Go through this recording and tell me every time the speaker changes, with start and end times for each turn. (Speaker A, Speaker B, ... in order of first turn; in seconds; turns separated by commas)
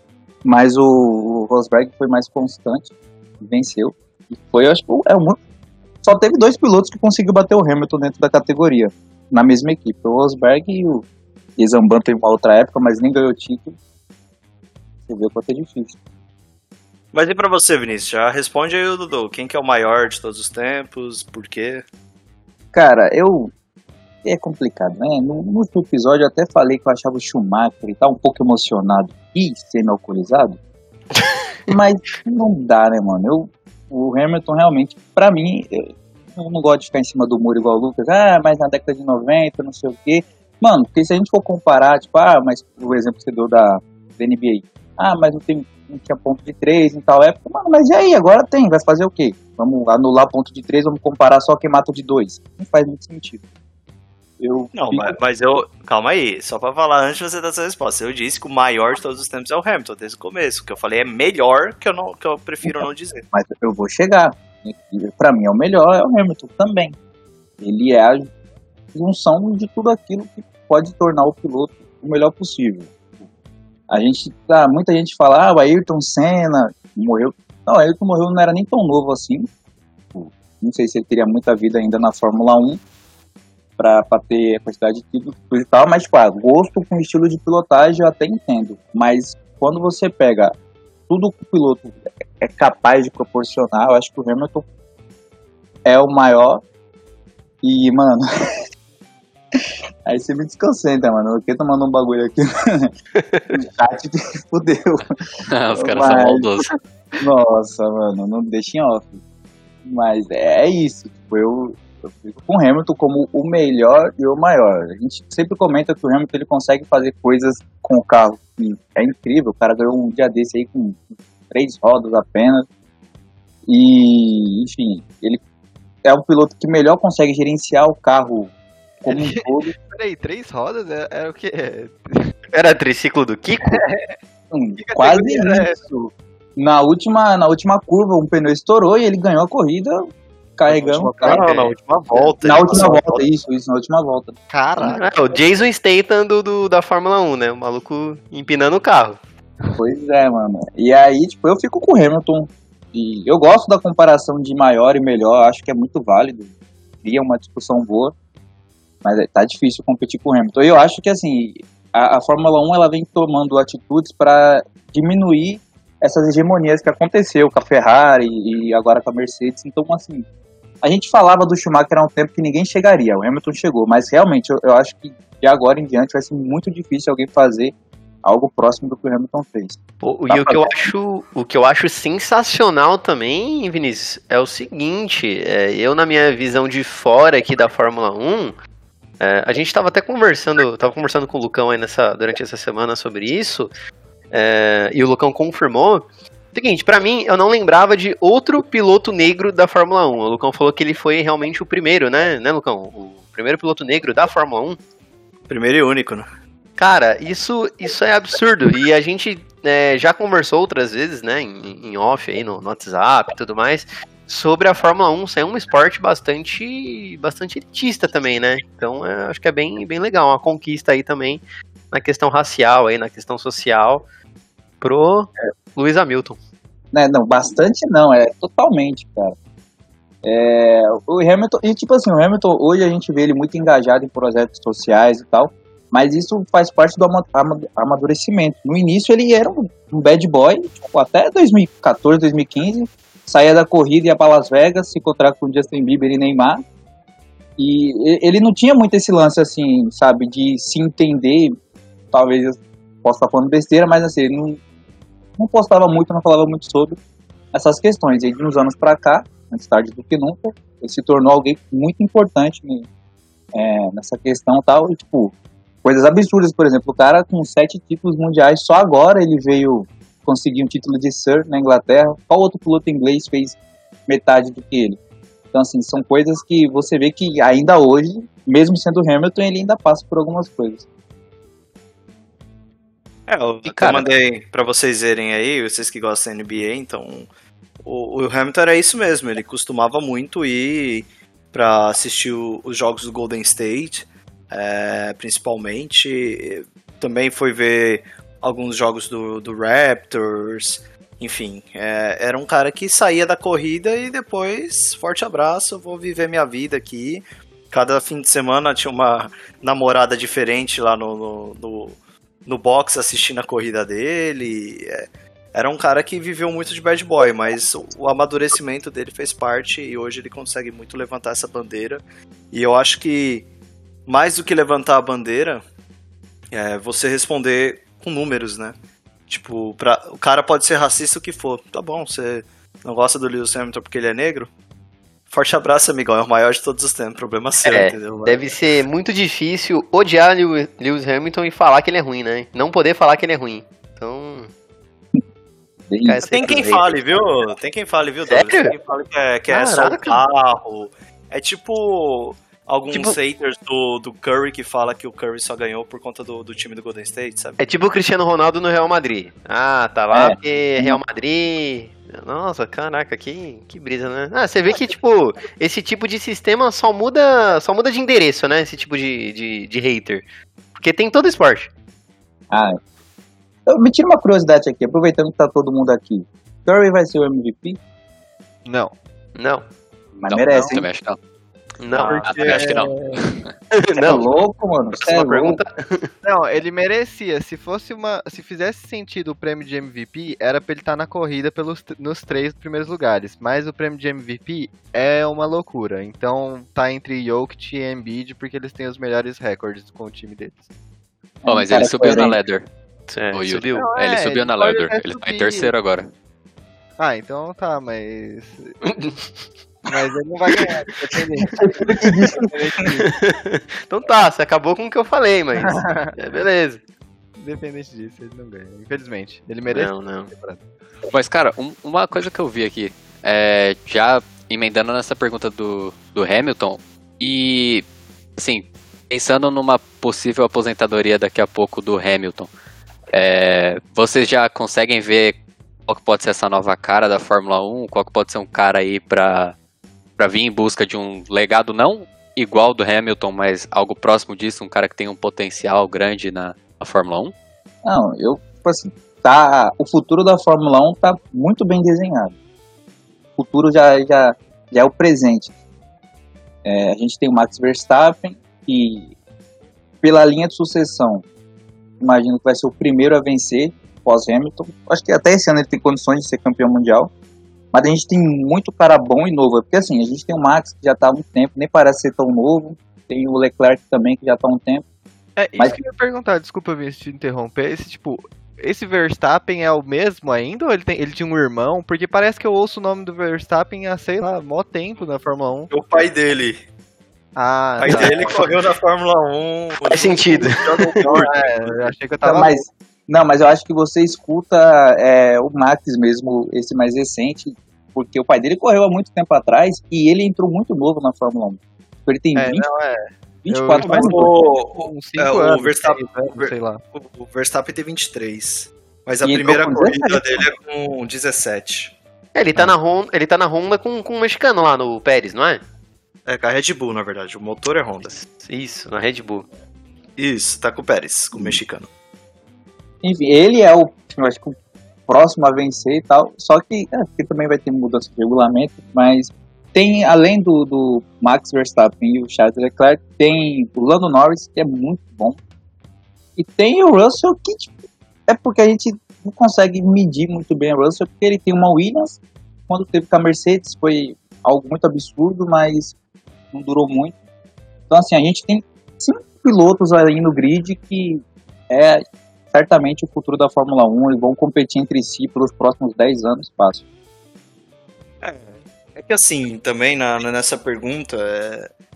Speaker A: 0.4-5.4, Speaker A: 6.0-11.1, Speaker A: 11.6-13.8, Speaker A: 15.1-16.0, Speaker B: 17.1-21.8, Speaker A: 22.7-23.5, Speaker A: 24.2-30.6, Speaker C: 31.1-31.8, Speaker A: 31.7-53.4, Speaker A: 54.4-55.2, Speaker B: 54.7-63.2, Speaker A: 63.3-67.0, Speaker A: 67.6-68.3, Speaker A: 68.9-73.3, Speaker A: 73.9-79.5, Speaker A: 80.1-82.8, Speaker A: 83.8-90.5, Speaker A: 91.1-94.6, Speaker A: 95.8-96.6, Speaker A: 97.6-98.2, Speaker A: 100.0-102.9, Speaker C: 103.2-103.6, Speaker A: 103.5-105.2, Speaker D: 105.5-106.7, Speaker A: 105.7-106.6, Speaker A: 107.2-109.2, Speaker A: 109.8-122.7, Speaker A: 123.7-125.4, Speaker A: 126.0-129.7, Speaker E: 129.1-132.3, Speaker C: 132.5-133.8, Speaker E: 133.7-134.1, Speaker A: 134.5-141.7, Speaker E: 134.8-135.8, Speaker B: 140.7-143.2, Speaker A: 142.4-144.3, Speaker E: 144.5-145.1, Speaker C: 144.8-149.2, Speaker A: 149.8-158.1, Speaker A: 159.0-170.2, Speaker A: 170.8-180.9, Speaker C: 180.0-188.6, Speaker C: 189.2-193.7, Speaker C: 194.3-204.8, Speaker B: 205.5-206.3, Speaker C: 206.8-224.0, Speaker C: 224.8-226.4, Speaker A: 226.9-229.3, Speaker A: 230.2-246.6, Speaker A: 247.6-251.6, Speaker A: 252.1-254.6, Speaker A: 255.4-257.0, Speaker A: 257.5-262.9, Speaker A: 263.5-275.0, Speaker A: 275.5-280.8, Speaker B: 283.3-287.3, Speaker D: 283.7-284.1, Speaker B: 287.8-323.5, Speaker B: 324.1-325.6, Speaker B: 326.5-328.7, Speaker B: 329.3-334.5, Speaker B: 335.3-338.5, Speaker C: 337.6-344.5, Speaker A: 345.9-346.6, Speaker C: 346.0-347.0, Speaker B: 346.2-357.7, Speaker C: 348.3-348.7, Speaker C: 349.5-350.2, Speaker C: 352.9-353.2, Speaker C: 357.6-371.7, Speaker A: 360.1-361.0, Speaker A: 372.5-372.8, Speaker A: 373.7-377.8, Speaker E: 378.6-378.9, Speaker C: 379.4-379.7, Speaker A: 380.2-380.9, Speaker D: 380.3-381.2, Speaker C: 381.8-382.5, Speaker B: 381.9-383.1, Speaker E: 382.1-382.9, Speaker D: 382.2-383.5, Speaker C: 383.8-384.2, Speaker A: 384.0-385.6, Speaker C: 384.9-386.1, Speaker E: 386.2-400.6, Speaker A: 401.4-402.4, Speaker D: 401.5-402.7, Speaker C: 403.1-403.9, Speaker D: 403.3-406.1, Speaker E: 403.7-405.7, Speaker E: 407.0-408.8, Speaker C: 408.9-409.5, Speaker E: 409.9-413.1, Speaker A: 412.0-412.4, Speaker C: 412.9-416.8, Speaker E: 415.8-416.1, Speaker E: 417.4-420.6, Speaker C: 419.7-420.3, Speaker D: 421.1-432.5, Speaker D: 433.1-439.5, Speaker D: 440.2-447.3, Speaker A: 447.8-452.4, Speaker A: 453.4-455.5, Speaker A: 456.6-459.1, Speaker A: 460.0-461.2, Speaker A: 462.0-467.1, Speaker A: 467.7-474.8, Speaker E: 475.4-485.7, Speaker B: 485.7-486.6, Speaker E: 487.4-488.4, Speaker B: 487.8-491.9, Speaker C: 487.8-488.4, Speaker C: 489.8-491.2, Speaker E: 491.0-492.6, Speaker A: 492.2-502.6, Speaker E: 502.3-506.8, Speaker A: 503.4-504.3, Speaker B: 503.8-511.9, Speaker A: 509.2-510.4, Speaker C: 512.3-515.6, Speaker B: 516.3-518.1, Speaker C: 518.0-519.5, Speaker B: 520.2-521.9, Speaker A: 523.0-524.5, Speaker A: 525.1-535.4, Speaker A: 536.4-537.7, Speaker A: 538.3-545.9, Speaker A: 546.5-547.2, Speaker A: 547.9-556.8, Speaker B: 558.2-561.7